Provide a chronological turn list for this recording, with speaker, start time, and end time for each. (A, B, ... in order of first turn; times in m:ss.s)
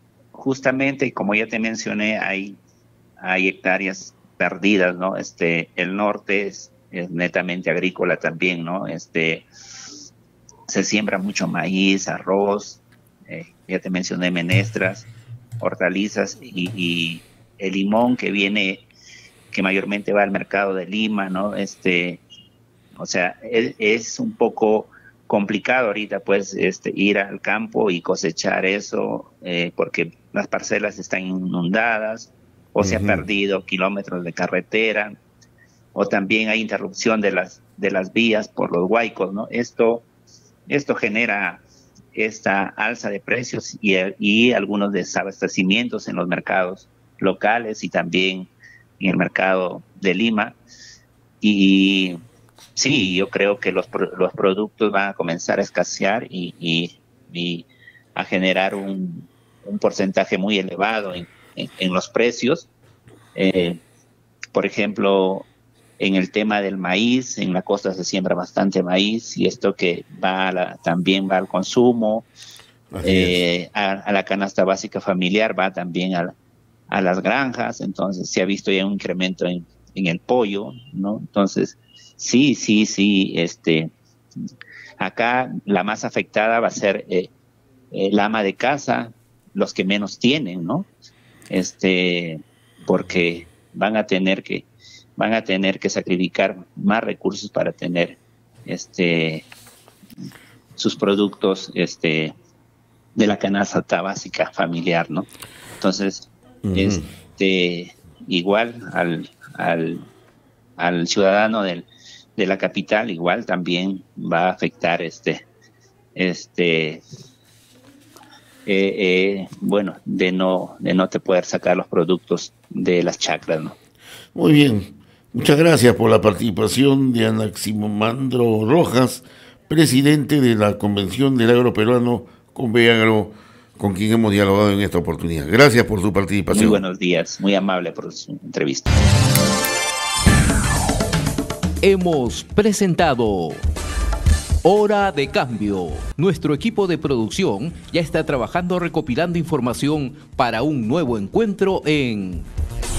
0:00.3-0:02.6 A
0:03.2-0:09.4 A
0:10.7-0:15.1 A
0:15.6-0:18.8 A
0:19.5-0:22.2 A
0:23.0-0:35.1 A
0:32.8-0:33.3 B
0:35.9-0:40.1 A
0:40.7-0:50.6 A
0:51.4-0:52.2 A
0:52.8-1:02.7 A
1:03.3-1:03.8 A
1:04.5-1:05.5 A
1:06.0-1:12.3 A
1:12.9-1:13.4 B
1:13.0-1:16.3 A
1:16.9-1:23.9 A
1:25.0-1:27.3 A
1:27.9-1:30.9 A
1:31.5-1:39.4 A
1:40.8-1:42.3 A
1:43.2-1:45.3 A
1:45.8-1:50.0 A
1:46.6-1:47.0 B
1:50.8-1:55.4 A
1:56.1-1:57.0 A
1:58.6-2:03.8 A
2:04.3-2:16.8 B
2:16.5-2:19.0 A
2:21.8-2:23.6 C
2:24.6-2:32.5 C